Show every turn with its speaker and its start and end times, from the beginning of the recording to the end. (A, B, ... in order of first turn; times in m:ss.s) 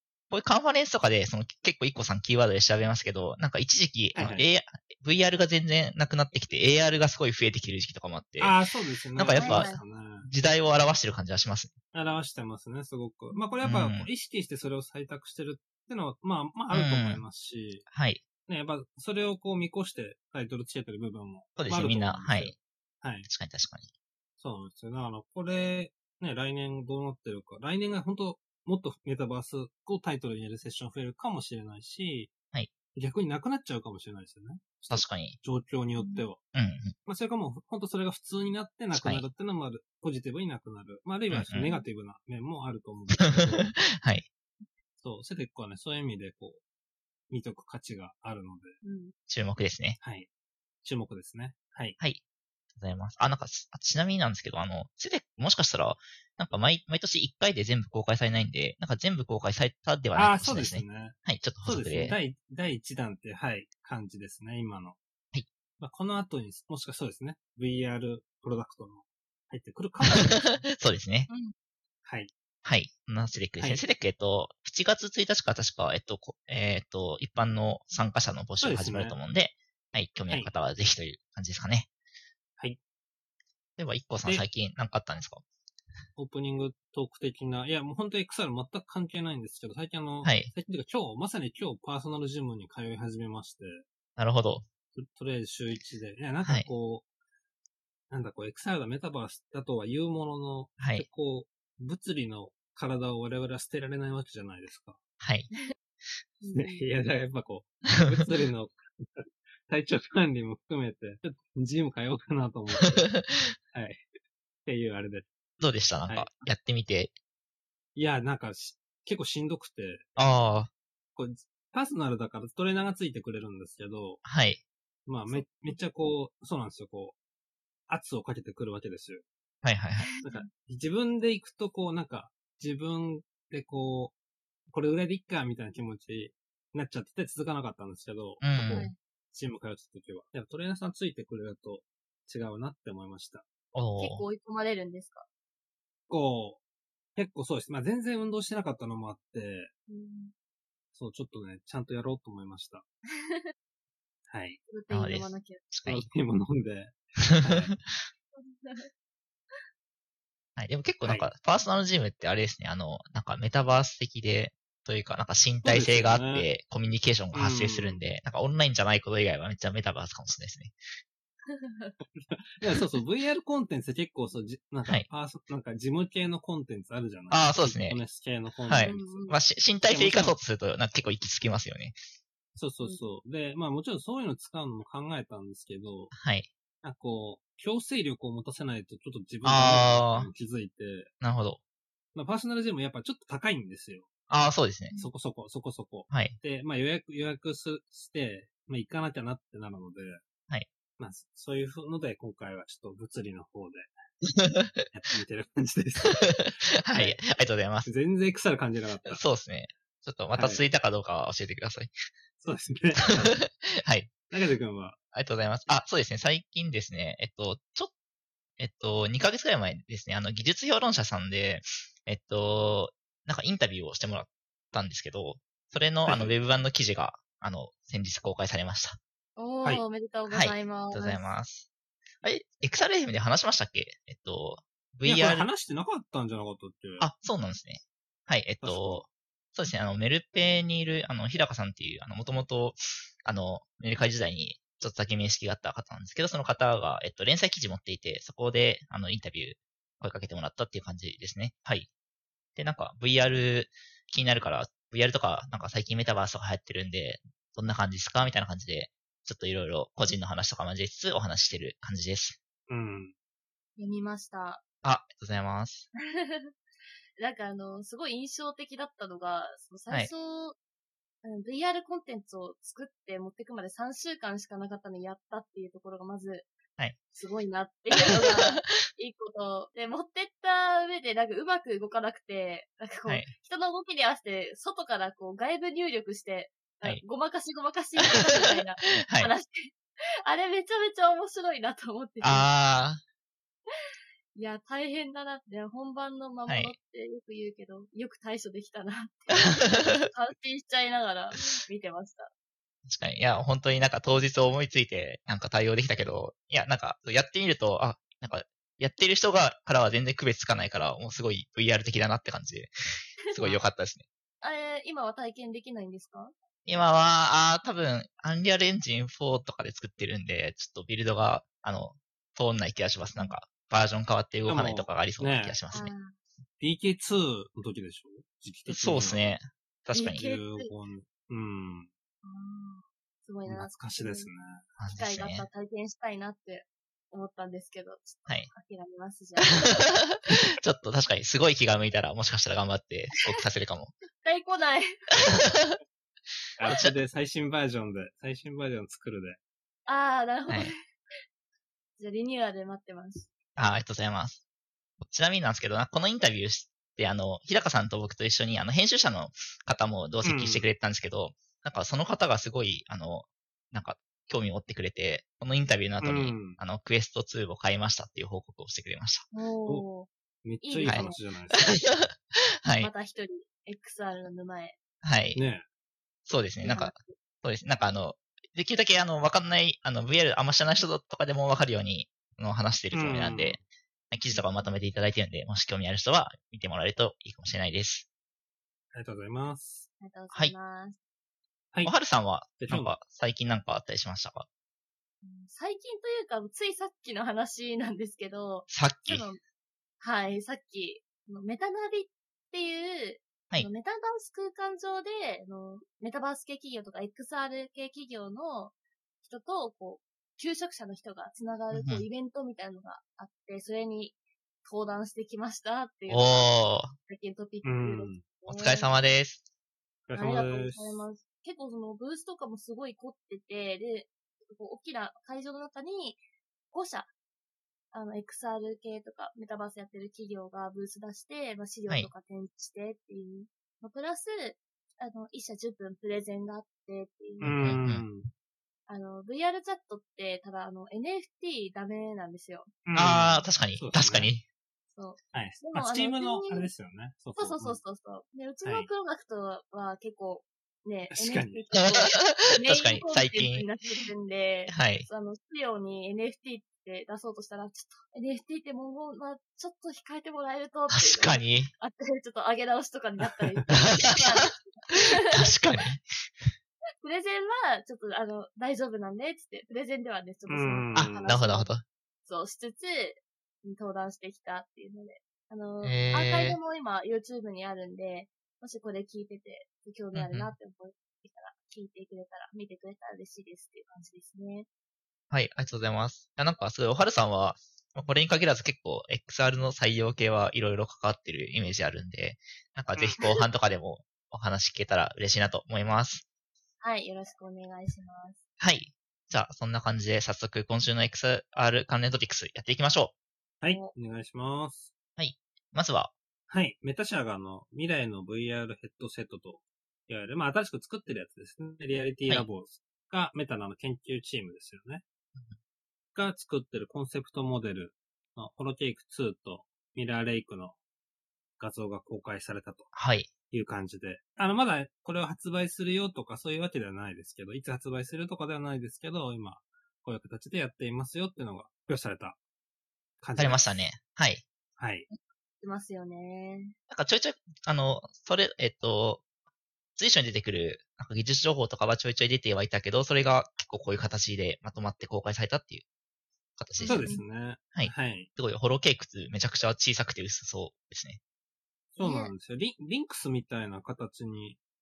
0:00.3-0:08.6 A
0:04.1-0:04.5 B
0:08.4-0:10.3 B
0:09.2-0:11.7 A
0:09.4-0:09.8 C
0:11.9-0:17.8 B
0:13.6-0:14.1 A
0:16.7-0:17.2 A
0:17.9-0:18.2 A
0:18.5-0:23.3 B
0:21.6-0:22.5 A
0:23.2-0:23.9 A
0:24.4-0:32.3 B
0:32.9-0:36.4 B
0:34.9-0:35.4 A
0:36.0-0:36.2 C
0:36.5-0:36.9 A
0:37.0-0:43.7 B
0:38.9-0:39.2 A
0:41.3-0:41.7 A
0:41.6-0:41.9 C
0:43.9-0:44.3 A
0:45.0-0:46.6 B
0:47.3-0:48.8 B
0:48.8-0:49.1 C
0:49.3-0:50.0 A
0:50.0-0:50.3 B
0:50.8-0:52.0 B
0:52.7-1:02.2 A
1:00.1-1:05.0 B
1:05.8-1:10.6 B
1:10.1-1:11.3 A
1:11.3-1:11.5 C
1:12.0-1:12.3 B
1:12.6-1:21.9 A
1:13.6-1:13.8 B
1:18.6-1:19.2 B
1:23.8-1:25.4 A
1:26.2-1:33.8 B
1:30.2-1:30.5 A
1:34.2-1:34.6 A
1:35.0-1:37.0 B
1:36.4-1:36.7 A
1:38.1-1:45.0 B
1:40.8-1:41.0 A
1:45.2-1:45.5 A
1:46.4-1:46.8 C
1:46.5-1:53.1 B
1:53.0-1:53.4 A
1:53.7-1:54.0 B
1:54.6-1:55.2 B
1:55.6-1:57.1 A
1:57.9-2:00.1 B
2:00.2-2:00.7 A
2:01.1-2:04.2 B
2:04.2-2:04.6 A
2:05.0-2:07.2 B
2:05.3-2:05.8 C
2:07.9-2:09.2 B
2:09.6-2:10.1 A
2:10.1-2:10.5 C
2:10.2-2:14.1 B
2:14.7-2:23.4 B
2:18.4-2:18.9 A
2:23.7-2:24.2 A
2:24.0-2:25.2 C
2:26.1-2:26.6 B
2:27.2-2:29.7 B
2:29.9-2:30.3 C
2:30.9-2:32.8 B
2:33.2-2:33.5 C
2:34.3-2:34.6 B
2:34.7-2:35.7 C
2:34.9-2:36.1 A
2:35.8-2:37.7 B
2:37.2-2:38.0 A
2:38.4-2:38.9 C
2:40.6-2:50.7 A
2:41.0-2:41.3 B
2:45.6-2:46.5 B
2:47.3-2:48.0 B
2:51.5-2:52.0 C
2:52.1-3:00.4 B
2:57.3-2:58.0 A
2:58.6-3:02.0 A
2:58.8-2:59.4 C
3:02.6-3:06.1 B
3:06.1-3:06.5 A
3:06.8-3:11.1 B
3:09.4-3:10.3 A
3:11.2-3:11.6 A
3:12.1-3:14.1 B
3:14.3-3:15.0 A
3:15.0-3:20.2 B
3:16.1-3:16.4 A
3:21.0-3:23.9 B
3:24.2-3:24.9 A
3:24.9-3:27.2 B
3:26.1-3:27.9 A
3:27.8-3:29.2 B
3:29.0-3:31.9 A
3:30.4-3:30.6 B
3:32.4-3:33.4 B
3:33.3-3:34.2 A
3:34.3-3:35.0 B
3:35.1-3:37.9 A
3:38.6-3:49.0 A
3:46.0-3:46.4 B
3:49.4-3:51.3 C
3:50.3-3:51.7 A
3:52.2-3:55.5 A
3:55.0-3:57.1 B
3:57.0-4:11.9 A
3:58.6-3:59.0 B
4:12.6-4:22.4 A
4:22.7-4:23.1 B
4:23.8-4:24.6 C
4:24.8-4:25.9 A
4:26.1-4:26.5 C
4:27.2-4:30.6 C
4:31.2-4:36.5 C
4:37.1-4:52.5 C
4:38.0-4:38.5 A
4:43.1-4:43.3 A
4:48.1-4:49.3 A
4:52.2-4:53.0 A
4:54.3-5:02.3 C
4:56.5-4:56.7 A
4:59.4-5:00.1 A
5:02.8-5:12.7 A
5:13.3-5:13.6 C
5:13.3-5:14.0 A
5:14.4-5:16.3 C
5:16.6-5:25.9 A
5:24.5-5:25.6 B
5:25.7-5:26.2 C
5:26.6-5:29.3 B
5:28.7-5:30.2 A
5:29.9-5:30.7 C
5:30.1-5:31.9 B
5:32.2-5:34.3 C
5:33.4-5:34.6 B
5:34.8-5:35.4 A
5:34.9-5:39.8 C
5:40.6-5:43.9 A
5:44.2-5:45.1 C
5:45.3-5:45.8 A
5:46.6-5:49.4 B
5:49.9-5:50.8 C
5:52.0-5:53.3 C
5:53.6-5:54.4 A
5:55.0-6:09.3 A
6:00.2-6:00.7 B
6:06.0-6:06.6 B
6:09.3-6:10.1 C
6:10.4-6:11.9 B
6:10.6-6:11.2 C
6:10.8-6:12.1 A
6:12.6-6:12.9 A
6:12.8-6:14.8 C
6:15.0-6:15.4 A
6:15.3-6:15.6 B
6:16.2-6:28.0 A
6:16.6-6:17.1 C
6:22.9-6:23.6 B
6:28.9-6:29.9 B
6:30.0-6:31.0 C
6:31.8-6:34.4 A
6:32.6-6:33.0 B
6:35.2-6:39.4 C
6:38.7-6:39.2 A
6:40.0-6:59.0 C
6:51.7-6:52.0 A
6:56.1-6:56.9 A
6:57.6-6:58.2 B
6:58.5-6:59.4 A
7:00.1-7:01.0 B
7:00.1-7:07.1 C
7:07.9-7:17.8 C
7:17.4-7:18.3 B
7:17.5-7:18.0 A
7:18.9-7:22.7 C
7:22.8-7:24.3 B
7:22.9-7:24.4 A
7:24.9-7:26.7 C
7:25.3-7:27.8 B
7:27.4-7:45.5 C
7:31.1-7:31.7 B
7:31.7-7:33.7 A
7:34.7-7:35.1 A
7:40.9-7:41.7 A
7:43.7-7:44.5 A
7:45.0-7:46.5 A
7:47.0-7:51.7 C
7:50.5-7:51.3 B
7:50.9-7:51.8 A
7:52.2-8:04.7 C
7:55.8-7:56.6 A
8:00.1-8:00.5 A
8:05.3-8:16.2 A
8:16.8-8:18.4 C
8:18.6-8:23.1 A
8:23.6-8:24.9 B
8:25.2-8:26.1 A
8:26.5-8:35.0 B
8:36.1-8:40.8 B
8:41.6-8:42.9 B
8:42.9-8:43.3 A
8:43.5-8:52.4 B
8:53.2-8:53.8 B
8:53.4-8:54.4 A
8:54.8-8:55.0 B
8:55.1-8:56.7 C
8:56.9-8:59.2 A
9:00.0-9:05.8 A
9:06.6-9:07.1 A
9:06.8-9:07.2 C
9:06.8-9:08.3 B
9:07.7-9:11.2 A
9:11.9-9:14.6 B
9:12.0-9:12.3 C